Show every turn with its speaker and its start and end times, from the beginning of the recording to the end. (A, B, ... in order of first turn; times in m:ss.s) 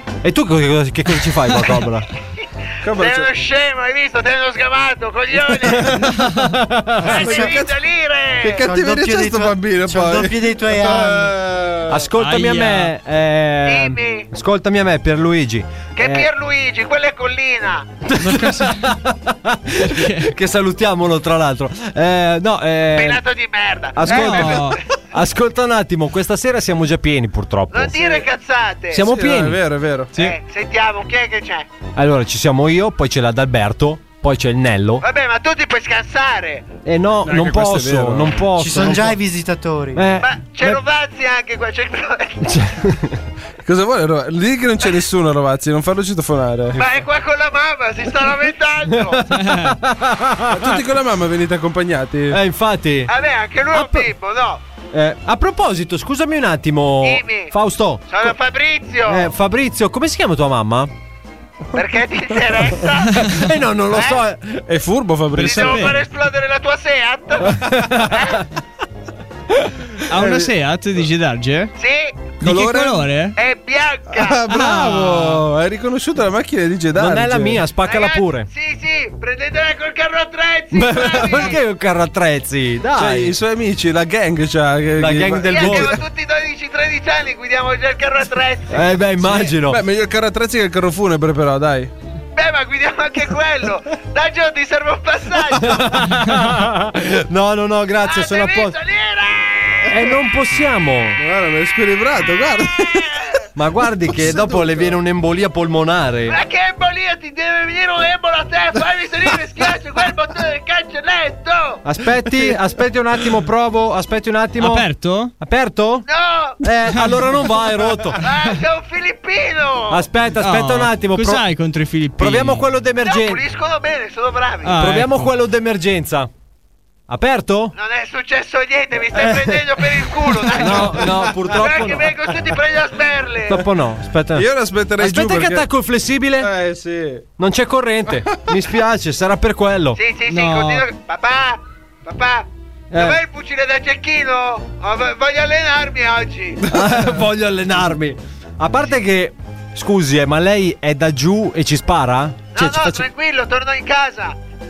0:00.2-0:02.1 A
0:02.8-0:03.3 B
0:02.9-0:06.0 C
0:05.7-0:06.1 B
0:05.7-0:07.2 A
0:07.0-0:07.6 D
0:07.0-0:07.8 B
0:07.1-0:08.6 C
0:08.4-0:12.1 B
0:08.5-0:11.4 D
0:11.9-0:16.3 A
0:12.2-0:12.9 E
0:13.6-0:14.3 C
0:16.0-0:17.9 C
0:18.1-0:23.2 A
0:18.2-0:18.9 E
0:19.8-0:20.3 E
0:22.9-0:24.8 C
0:24.0-0:28.3 A
0:24.1-0:24.8 E
0:27.7-0:29.0 C
0:28.9-0:29.6 A
0:29.0-0:30.1 B
0:30.1-0:31.7 C
0:32.0-0:35.0 A
0:35.0-0:36.7 C
0:36.8-0:39.2 A
0:37.2-0:39.0 B
0:38.6-0:40.1 D
0:40.0-0:40.8 A
0:40.2-0:42.4 C
0:42.4-0:43.2 A
0:43.6-0:46.8 B
0:46.7-0:49.2 C
0:49.0-0:50.8 A
0:49.3-0:49.8 E
0:50.5-0:52.4 B
0:52.3-0:53.1 A
0:53.1-0:54.6 C
0:53.7-0:54.1 A
0:54.9-0:58.3 A
0:57.0-0:57.5 C
0:58.1-0:59.3 C
0:59.1-1:00.9 A
1:01.7-1:03.3 C
1:03.3-1:04.6 A
1:03.9-1:04.2 C
1:04.7-1:06.0 B
1:05.4-1:06.0 E
1:05.4-1:08.4 C
1:07.4-1:08.4 A
1:10.1-1:11.7 E
1:10.1-1:10.5 B
1:11.8-1:12.4 C
1:12.4-1:13.4 E
1:12.4-1:13.1 B
1:13.4-1:14.4 C
1:14.1-1:17.6 B
1:14.5-1:15.4 E
1:17.0-1:18.5 A
1:17.8-1:21.6 C
1:20.7-1:23.3 A
1:23.0-1:26.0 B
1:25.0-1:26.0 A
1:25.4-1:28.9 C
1:28.7-1:29.8 A
1:29.2-1:31.9 B
1:32.4-1:36.0 C
1:35.5-1:38.8 A
1:38.0-1:40.0 C
1:39.9-1:41.2 A
1:41.2-1:43.1 B
1:43.6-1:46.4 A
1:44.1-1:45.0 B
1:46.3-1:51.8 C
1:51.8-1:56.0 A
1:54.6-1:55.3 E
1:56.1-1:56.6 C
1:56.6-1:58.2 A
1:56.9-1:57.3 E
1:58.2-2:00.1 C
1:59.9-2:01.5 A
2:00.4-2:02.7 E
2:02.2-2:03.4 A
2:03.0-2:04.8 C
2:04.6-2:05.3 E
2:04.7-2:06.3 A
2:07.1-2:07.7 A
2:07.7-2:13.6 C
2:09.1-2:09.6 A
2:10.5-2:12.3 A
2:13.4-2:14.5 A
2:14.3-2:15.7 B
2:15.0-2:16.5 A
2:16.4-2:17.2 B
2:17.4-2:20.0 A
2:20.0-2:26.6 C
2:20.3-2:20.8 E
2:22.9-2:23.2 A
2:26.7-2:33.0 A
2:32.5-2:34.3 C